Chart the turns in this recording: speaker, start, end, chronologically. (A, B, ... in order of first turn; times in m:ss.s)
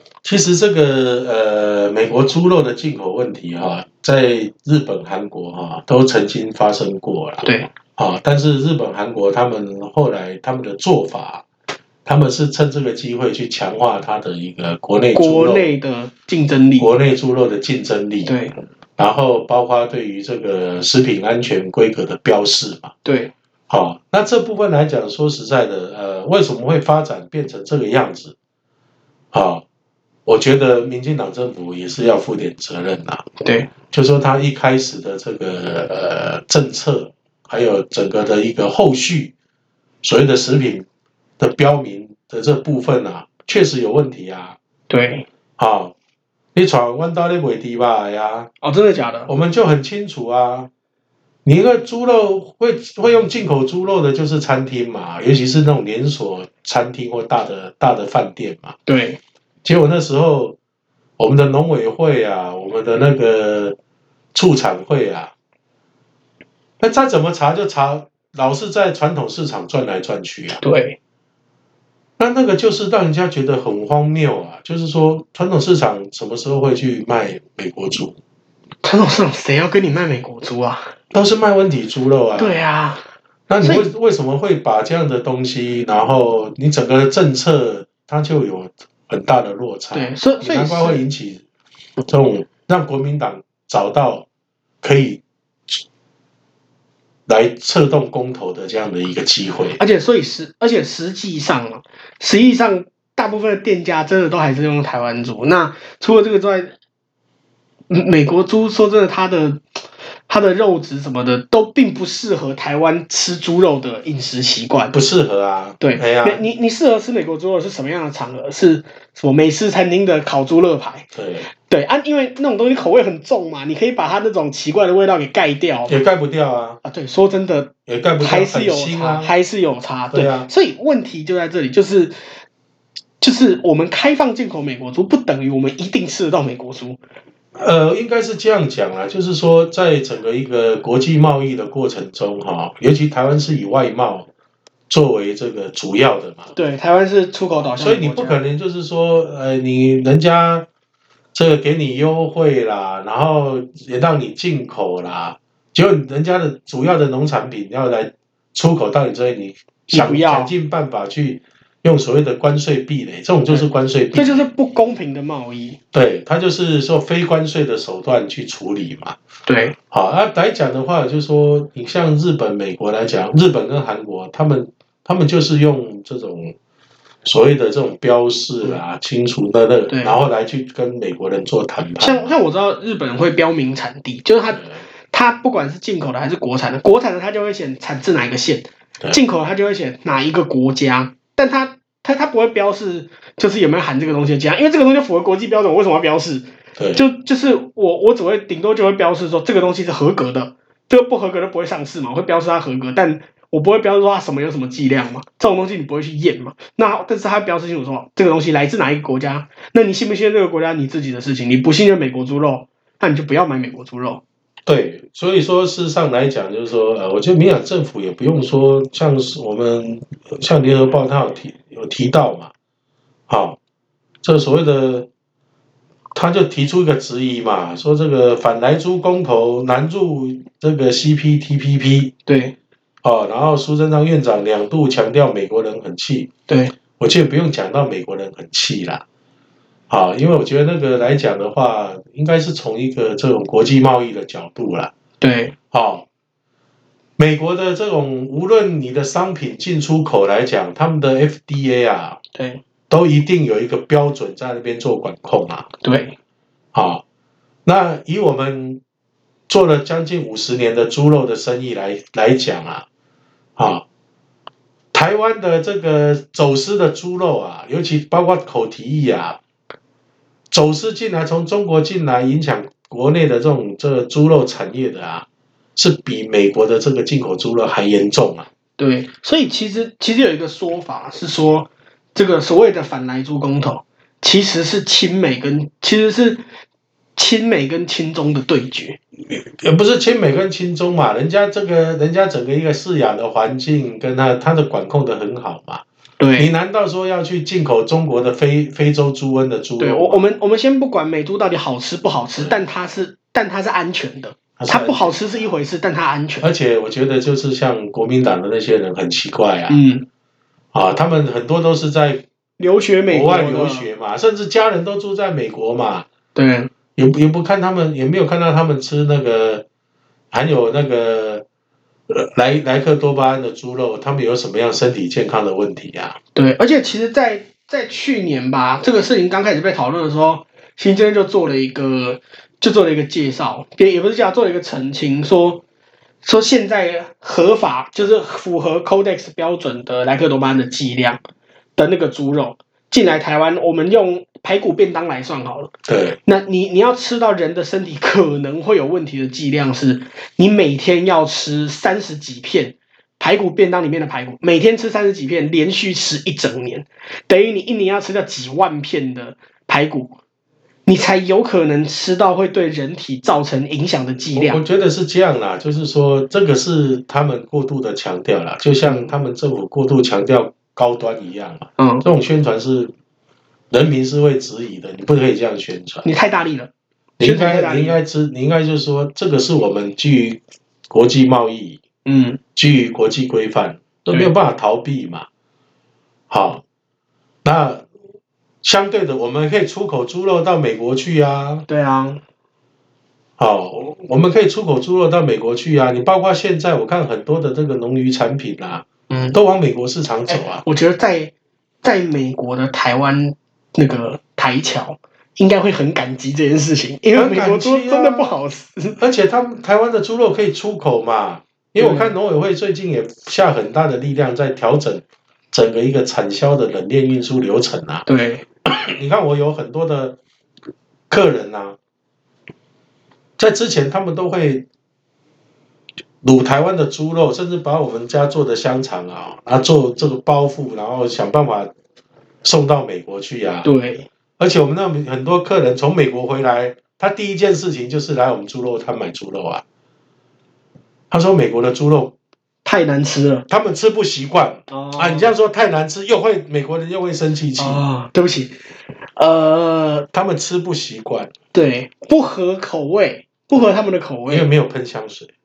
0:00.2-0:07.5 A
0:07.4-0:07.7 B
0:08.0-0:11.4 A
0:12.0-0:15.7 A
0:15.2-0:16.9 B
0:16.8-0:18.4 A
0:18.3-0:18.6 B
0:19.0-0:22.9 A
0:23.0-0:23.3 B
0:23.7-0:28.4 A
0:29.3-0:29.6 A
0:30.3-0:33.3 A
0:33.4-0:33.7 B
0:33.9-0:39.3 A
0:40.0-0:40.9 A
0:41.4-0:44.6 A
0:44.9-0:45.3 B
0:45.6-0:45.9 A
0:46.6-0:48.5 A
0:48.6-0:49.3 B
0:49.3-0:50.7 A
0:51.4-0:58.8 A
0:58.9-0:59.2 B
0:59.6-1:00.6 A
1:01.2-1:03.8 A
1:04.3-1:05.3 A
1:06.8-1:10.6 A
1:10.6-1:11.0 B
1:12.2-1:18.2 A
1:18.8-1:20.9 B
1:21.1-1:22.6 A
1:22.4-1:23.0 B
1:23.5-1:31.4 A
1:29.9-1:31.0 B
1:32.1-1:34.3 A
1:34.8-1:35.8 A
1:37.3-1:39.8 A
1:39.8-1:46.7 B
1:47.9-1:49.6 B
1:50.3-1:55.0 B
1:54.9-1:56.4 A
1:55.8-2:01.1 B
2:01.1-2:01.5 A
2:01.7-2:06.0 B
2:05.9-2:06.8 A
2:06.8-2:12.2 B
2:07.9-2:09.3 A
2:10.1-2:10.5 A
2:13.2-2:17.0 B
2:17.6-2:24.3 A
2:24.9-2:26.5 A
2:26.5-2:28.4 B
2:27.8-2:30.7 A
2:31.4-2:44.4 A
2:39.9-2:40.5 B
2:43.5-2:45.8 B
2:45.9-2:49.2 A
2:49.5-2:49.8 B
2:49.9-2:56.6 A
2:57.2-3:02.4 A
2:59.9-3:00.2 B
3:02.0-3:34.2 B
3:16.8-3:17.0 A
3:34.7-3:42.5 A
3:43.3-3:43.6 A
3:44.2-3:45.1 A
3:46.1-3:52.1 A
3:52.3-3:52.6 B
3:53.0-3:56.3 A
3:56.5-3:56.7 B
3:57.0-3:59.0 A
3:59.9-4:04.9 A
4:05.2-4:05.6 B
4:05.7-4:06.1 A
4:07.2-4:12.2 A
4:12.4-4:12.6 B
4:12.9-4:15.7 A
4:15.8-4:16.2 B
4:16.7-4:17.0 A
4:17.6-4:18.8 A
4:19.5-4:22.8 A
4:23.6-4:23.8 A
4:24.9-4:29.4 A
4:30.5-4:38.5 A
4:38.8-4:46.4 B
4:47.2-4:49.0 B
4:49.3-4:55.8 A
4:56.2-4:56.5 B
4:56.4-5:00.2 A
4:59.8-5:06.5 B
5:04.6-5:05.2 A
5:06.4-5:09.8 A
5:09.7-5:10.0 B
5:10.7-5:12.2 A
5:12.6-5:13.9 B
5:13.1-5:16.1 A
5:16.4-5:16.7 B
5:17.0-5:19.6 A
5:20.3-5:21.5 A
5:22.1-5:26.2 A
5:26.4-5:35.6 B
5:36.2-5:41.2 B
5:41.8-5:45.7 B
5:45.9-5:46.2 A
5:46.3-6:00.2 B
6:00.9-6:04.6 B
6:04.3-6:12.9 A
6:08.9-6:09.1 B
6:11.8-6:12.1 B
6:13.7-6:16.1 A
6:16.0-6:18.0 B
6:17.2-6:21.8 A
6:22.0-6:22.4 B
6:22.6-6:25.3 A
6:26.3-6:26.6 A
6:27.4-6:27.9 A
6:28.6-6:31.7 A
6:31.7-6:32.2 B
6:33.4-6:40.6 A
6:39.1-6:39.4 B
6:40.3-6:49.0 B
6:47.2-6:48.4 A
6:49.0-6:58.1 A
6:51.8-6:52.1 B
6:58.1-6:58.4 B
6:58.6-7:00.2 A
7:01.1-7:01.8 A
7:03.4-7:04.7 A
7:06.2-7:11.7 A
7:12.4-7:13.7 A
7:13.6-7:14.1 B
7:14.4-7:19.6 A
7:21.1-7:22.1 A
7:22.6-7:23.5 B
7:23.5-7:27.8 A
7:24.7-7:25.3 B
7:27.6-7:28.6 B
7:29.2-7:30.1 B
7:30.1-7:31.3 A
7:31.5-7:34.5 B
7:34.3-7:35.3 A